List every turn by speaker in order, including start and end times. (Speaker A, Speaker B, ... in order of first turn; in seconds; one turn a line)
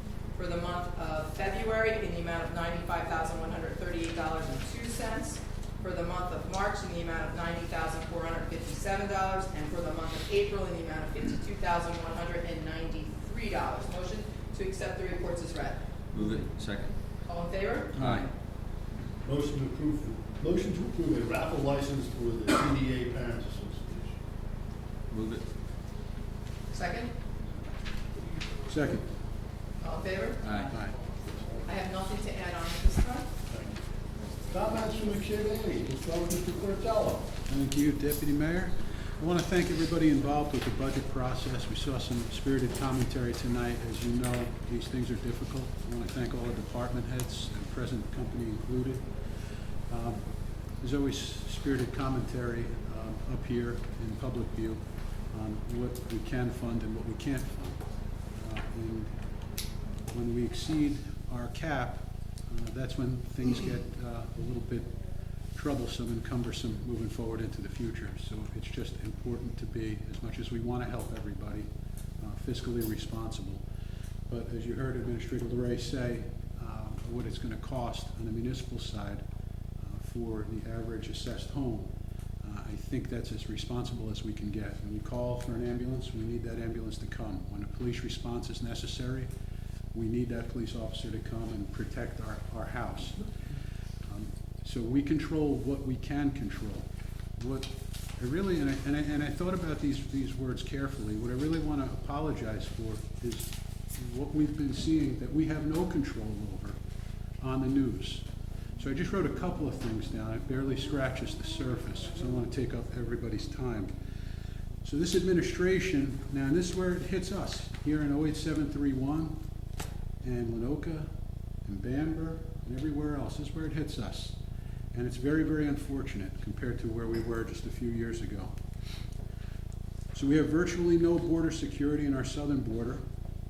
Speaker A: 0.3-15.8
Speaker B: 16.1-16.9
Speaker A: 17.2-18.3
Speaker C: 17.9-18.2
Speaker B: 18.0-18.2
Speaker D: 19.2-24.2
Speaker B: 25.1-25.4
Speaker A: 26.7-27.1
Speaker C: 28.7-29.1
Speaker A: 29.8-30.7
Speaker B: 30.4-30.8
Speaker C: 30.7-31.0
Speaker A: 31.6-33.3
Speaker D: 33.5-33.8
Speaker D: 34.5-37.3
Speaker C: 37.5-49.1
Speaker C: 49.9-50.2
Speaker C: 50.8-59.2
Speaker C: 60.1-64.9
Speaker C: 65.5-71.7
Speaker C: 72.2-73.6
Speaker C: 74.3-79.2
Speaker C: 79.8-89.3
Speaker C: 89.9-93.2
Speaker C: 94.0-96.9
Speaker C: 97.4-106.8
Speaker C: 107.4-108.2
Speaker C: 108.8-113.9
Speaker C: 114.8-119.4
Speaker C: 120.2-121.1
Speaker C: 121.6-124.4
Speaker C: 124.9-128.5
Speaker C: 130.1-133.0